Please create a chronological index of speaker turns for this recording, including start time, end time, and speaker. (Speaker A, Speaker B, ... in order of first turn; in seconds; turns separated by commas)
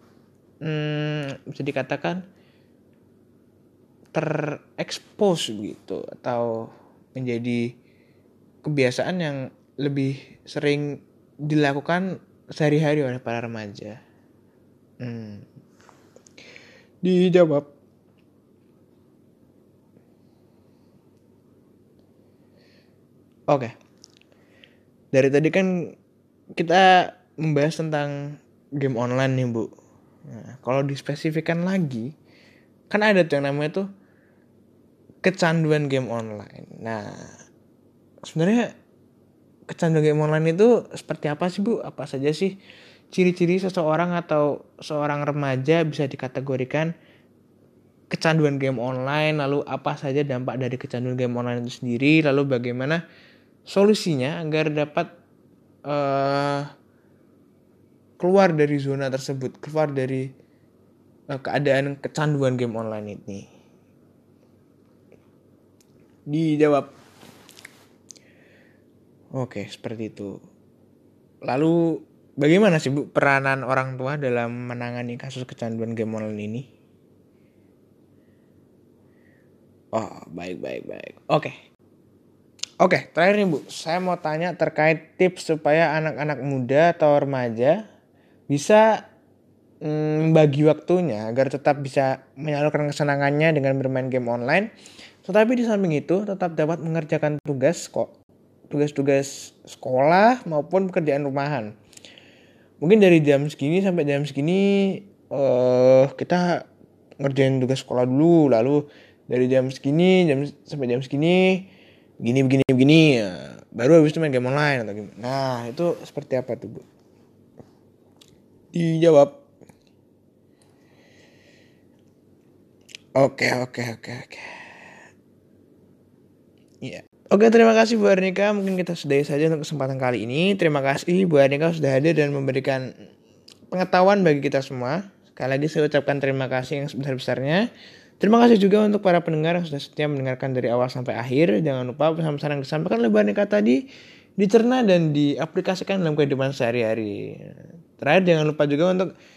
Speaker A: 0.6-2.2, Speaker A: 4.1-6.5, Speaker A: 7.2-7.6, Speaker A: 8.6-10.9, Speaker A: 11.4-12.0, Speaker A: 12.6-14.0, Speaker A: 15.0-15.4, Speaker A: 17.0-17.7, Speaker A: 25.1-25.7, Speaker A: 26.6-28.1, Speaker A: 28.8-29.7, Speaker A: 30.3-32.1, Speaker A: 32.9-33.8, Speaker A: 35.2-37.1, Speaker A: 38.3-38.7, Speaker A: 39.7-42.5, Speaker A: 43.1-46.9, Speaker A: 48.1-53.0, Speaker A: 53.7-55.1, Speaker A: 55.9-56.7, Speaker A: 58.2-60.3, Speaker A: 61.3-63.5, Speaker A: 66.3-66.9, Speaker A: 69.3-70.3, Speaker A: 71.5-71.8, Speaker A: 72.4-76.6, Speaker A: 79.9-81.5, Speaker A: 82.8-87.8, Speaker A: 88.5-88.8, Speaker A: 89.8-94.7, Speaker A: 95.2-98.1, Speaker A: 98.7-101.7, Speaker A: 102.8-106.5, Speaker A: 107.2-111.5, Speaker A: 112.2-116.8, Speaker A: 118.7-119.3, Speaker A: 123.2-124.7, Speaker A: 126.8-132.8, Speaker A: 133.7-137.7, Speaker A: 138.2-143.8, Speaker A: 144.4-149.1